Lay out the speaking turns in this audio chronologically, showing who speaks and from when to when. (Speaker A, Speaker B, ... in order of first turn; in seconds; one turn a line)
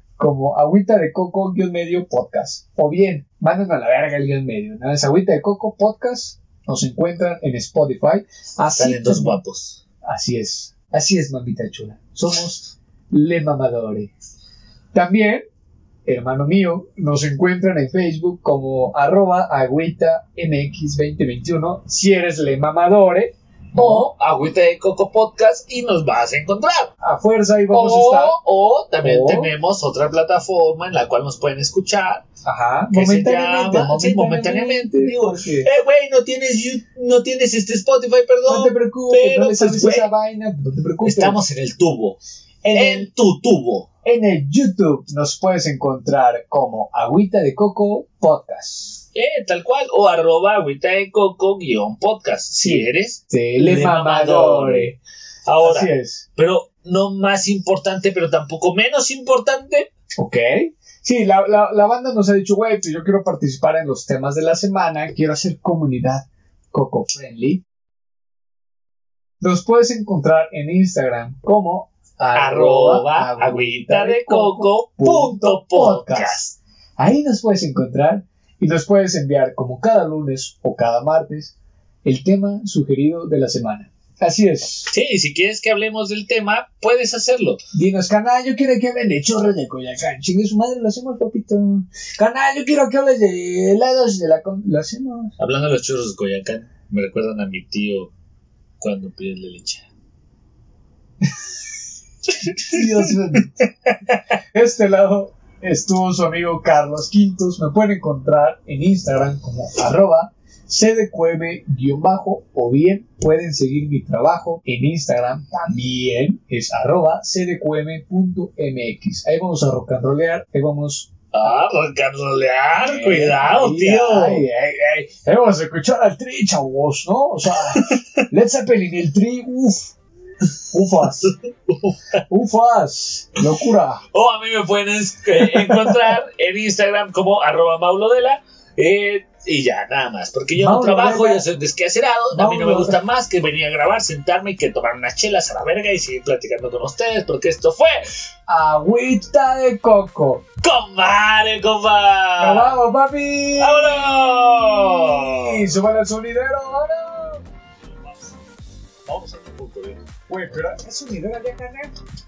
Speaker A: 0.2-9.4
Speaker B: 8.7-9.8
Speaker A: 10.0-14.1
Speaker A: 14.9-15.4
Speaker A: 16.0-24.1
Speaker B: 23.7-26.9
Speaker A: 27.0-28.4
Speaker B: 27.7-32.2
Speaker A: 29.0-29.5
Speaker A: 32.4-35.7
Speaker B: 32.9-40.1
Speaker A: 38.5-41.4
Speaker B: 41.0-42.2
Speaker A: 42.6-43.1
Speaker B: 42.7-43.9
Speaker A: 44.0-49.0
Speaker B: 49.1-54.9
Speaker A: 52.6-55.0
Speaker B: 55.5-59.9
Speaker A: 55.6-56.2
Speaker A: 60.2-67.6
Speaker A: 69.4-76.4
Speaker B: 72.3-76.6
Speaker A: 77.0-81.5
Speaker A: 82.0-84.9
Speaker B: 84.9-87.6
Speaker A: 87.7-95.3
Speaker B: 95.4-98.1
Speaker B: 98.8-99.9
Speaker B: 102.3-104.2
Speaker A: 102.5-103.5
Speaker A: 104.5-121.5
Speaker B: 121.3-124.4
Speaker A: 122.8-129.9
Speaker B: 127.5-128.2
Speaker A: 130.7-131.3
Speaker B: 131.0-132.2
Speaker A: 132.3-134.0
Speaker B: 134.1-148.0
Speaker A: 135.4-136.0
Speaker A: 140.5-141.4
Speaker A: 142.3-143.0
Speaker A: 148.5-150.4
Speaker B: 150.6-152.8
Speaker A: 152.4-154.1
Speaker B: 153.6-155.6
Speaker A: 154.6-157.4
Speaker B: 157.9-158.3
Speaker B: 159.1-160.1
Speaker A: 160.3-161.9